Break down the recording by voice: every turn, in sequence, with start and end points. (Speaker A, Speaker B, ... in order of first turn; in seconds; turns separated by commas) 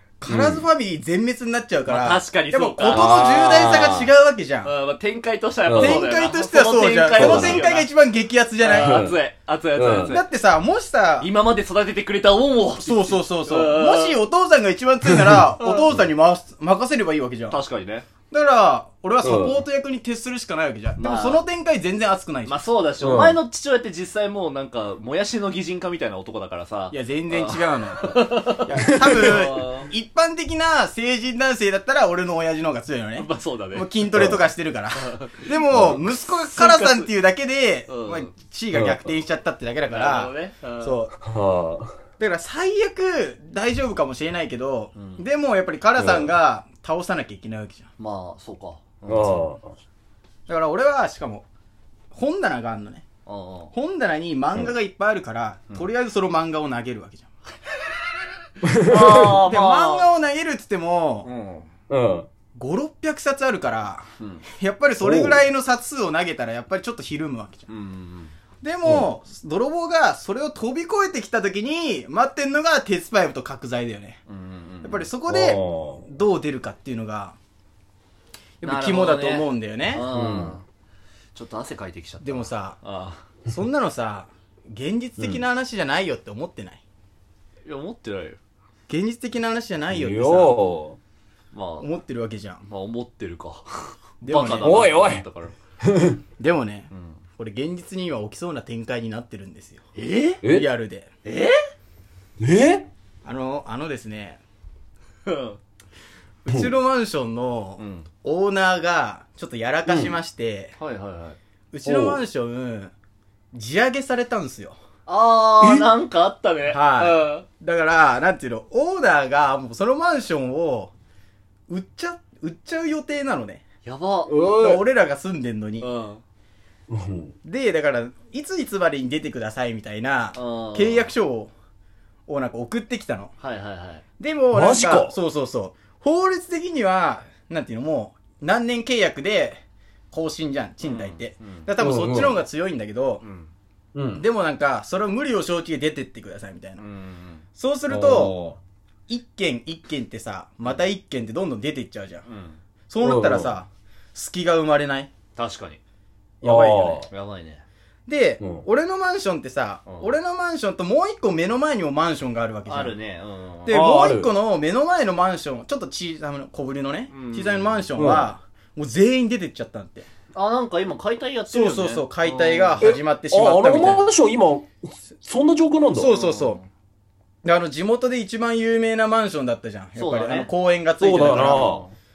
Speaker A: 0.2-4.7, Speaker B: 0.3-0.7, Speaker C: 1.9-4.0, Speaker B: 2.9-4.1, Speaker C: 4.6-7.9, Speaker B: 5.7-6.0, Speaker A: 5.8-9.1, Speaker B: 7.1-7.7, Speaker C: 8.6-10.3, Speaker B: 8.8-9.2, Speaker B: 9.8-10.2, Speaker A: 10.1-11.3, Speaker C: 11.2-14.2, Speaker A: 12.8-17.6, Speaker B: 15.1-15.4, Speaker C: 15.6-15.9, Speaker C: 17.5-18.1, Speaker A: 18.3-22.6, Speaker B: 19.2-19.6, Speaker C: 21.0-21.4, Speaker C: 22.4-29.9, Speaker B: 23.0-23.4, Speaker A: 26.9-41.2, Speaker B: 29.0-29.4, Speaker C: 33.2-33.9, Speaker B: 34.1-34.4, Speaker C: 35.0-37.1, Speaker B: 35.7-36.0, Speaker C: 37.9-38.3, Speaker B: 38.7-39.1, Speaker C: 39.9-41.0, Speaker B: 41.2-41.9, Speaker A: 42.2-47.9, Speaker C: 45.0-45.2, Speaker B: 46.0-46.3, Speaker C: 48.0-49.5, Speaker B: 49.1-49.7, Speaker A: 50.5-51.5, Speaker A: 52.1-53.0, Speaker C: 53.3-53.7, Speaker A: 53.7-57.3, Speaker B: 58.6-59.4, Speaker C: 58.9-60.1, Speaker A: 59.4-61.3, Speaker C: 61.2-61.7, Speaker B: 61.9-62.3, Speaker A: 62.5-67.7, Speaker C: 64.2-64.5, Speaker B: 65.0-65.4, Speaker C: 67.7-68.3, Speaker A: 68.6-74.2, Speaker C: 74.3-75.1, Speaker A: 74.8-77.4, Speaker B: 75.3-76.0, Speaker A: 78.6-80.1, Speaker C: 78.6-80.6, Speaker B: 80.1-80.6, Speaker C: 81.3-83.2, Speaker A: 82.2-82.8, Speaker A: 83.5-86.8, Speaker B: 85.2-85.4, Speaker C: 87.7-88.4, Speaker A: 88.9-90.6, Speaker B: 89.9-91.0, Speaker C: 91.5-91.9, Speaker A: 91.8-92.7, Speaker C: 92.7-95.5, Speaker A: 94.2-94.8, Speaker B: 94.6-95.3, Speaker B: 95.8-96.2, Speaker A: 96.4-99.8, Speaker C: 100.0-100.4, Speaker A: 100.5-101.1, Speaker C: 101.2-101.6, Speaker B: 102.4-102.9, Speaker A: 103.2-104.4, Speaker C: 105.3-105.6, Speaker A: 106.5-110.8, Speaker C: 107.8-108.1, Speaker B: 109.9-110.2, Speaker C: 110.8-111.4, Speaker A: 111.7-112.9, Speaker B: 111.9-112.2, Speaker A: 113.5-114.8, Speaker C: 115.1-117.5, Speaker B: 115.6-115.9, Speaker A: 116.7-120.9, Speaker A: 121.7-123.6, Speaker C: 123.8-124.4, Speaker B: 124.3-124.8, Speaker A: 124.5-125.9, Speaker C: 125.8-126.2, Speaker B: 126.9-127.3, Speaker A: 127.4-131.5, Speaker C: 130.3-131.1, Speaker A: 132.3-133.3, Speaker C: 133.4-134.0, Speaker A: 134.2-143.2, Speaker B: 134.5-135.2, Speaker C: 140.8-141.7, Speaker B: 141.8-142.4, Speaker C: 143.2-143.5, Speaker B: 143.9-144.2, Speaker A: 144.2-146.8, Speaker C: 146.8-147.4, Speaker A: 147.6-148.3, Speaker B: 147.9-148.6, Speaker A: 149.1-152.2, Speaker C: 152.3-152.6, Speaker A: 152.9-155.1, Speaker B: 153.0-153.5, Speaker C: 155.4-155.8, Speaker B: 156.4-157.1, Speaker A: 156.4-157.1, Speaker C: 157.1-157.6, Speaker A: 158.1-163.0, Speaker C: 159.9-160.2, Speaker C: 162.7-163.8, Speaker A: 163.7-170.1, Speaker B: 163.7-164.3, Speaker C: 167.1-167.9, Speaker B: 168.0-168.3, Speaker C: 170.3-172.9, Speaker A: 171.5-174.1, Speaker B: 172.8-176.1, Speaker A: 175.9-176.6, Speaker C: 176.1-176.7, Speaker A: 177.4-181.8, Speaker C: 180.0-180.5, Speaker B: 181.0-181.9, Speaker C: 181.4-181.9